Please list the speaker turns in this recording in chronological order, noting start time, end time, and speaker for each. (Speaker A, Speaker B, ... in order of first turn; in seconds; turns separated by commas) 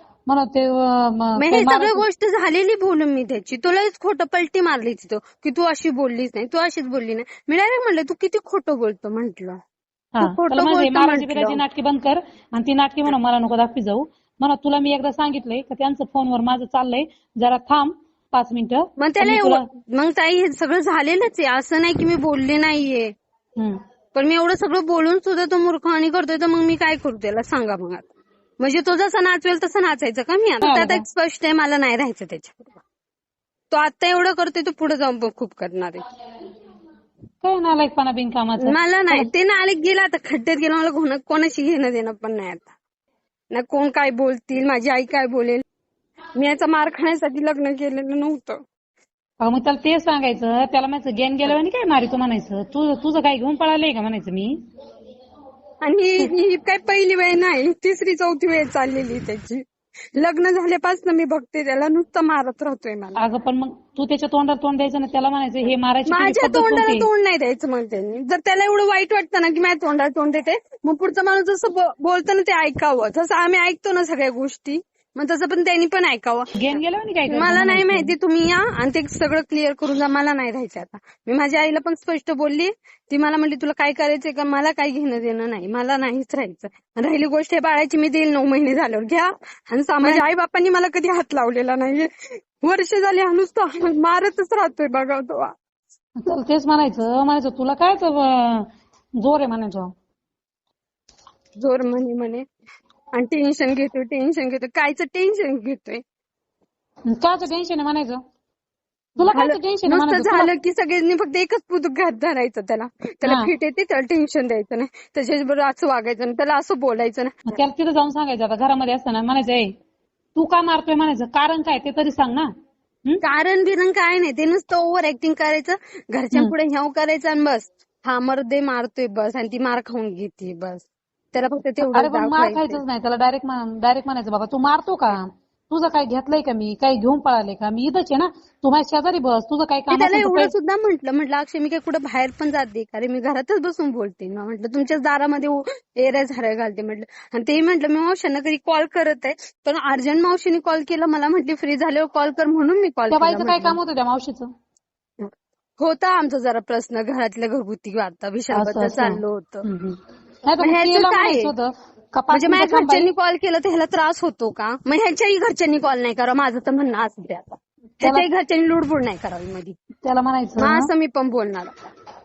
Speaker A: 0.2-2.0, Speaker B: 1.4-9.6, Speaker A: 10.1-19.6, Speaker B: 10.2-11.6, Speaker B: 19.0-23.1, Speaker B: 24.1-28.1, Speaker B: 28.6-32.8, Speaker A: 30.6-31.0, Speaker B: 33.7-36.0, Speaker A: 37.4-39.3, Speaker B: 38.6-42.7, Speaker B: 43.5-45.6, Speaker B: 46.3-48.6, Speaker A: 49.4-54.6, Speaker B: 55.8-59.6, Speaker B: 60.1-63.2, Speaker A: 63.1-67.1, Speaker B: 66.1-76.5, Speaker A: 76.5-78.1, Speaker B: 77.3-95.5, Speaker A: 96.2-98.7, Speaker A: 99.2-99.9, Speaker B: 101.6-102.4, Speaker B: 103.1-106.0, Speaker A: 107.1-108.2, Speaker A: 109.2-110.5, Speaker B: 109.3-117.3, Speaker A: 113.2-113.5, Speaker A: 117.5-119.7, Speaker A: 120.3-122.5, Speaker B: 123.2-132.8, Speaker A: 131.8-140.5, Speaker B: 139.9-153.8, Speaker A: 153.1-154.5, Speaker B: 155.2-159.6, Speaker A: 158.5-163.1, Speaker B: 160.6-161.5, Speaker B: 162.3-169.7, Speaker A: 170.0-170.9, Speaker B: 170.6-171.7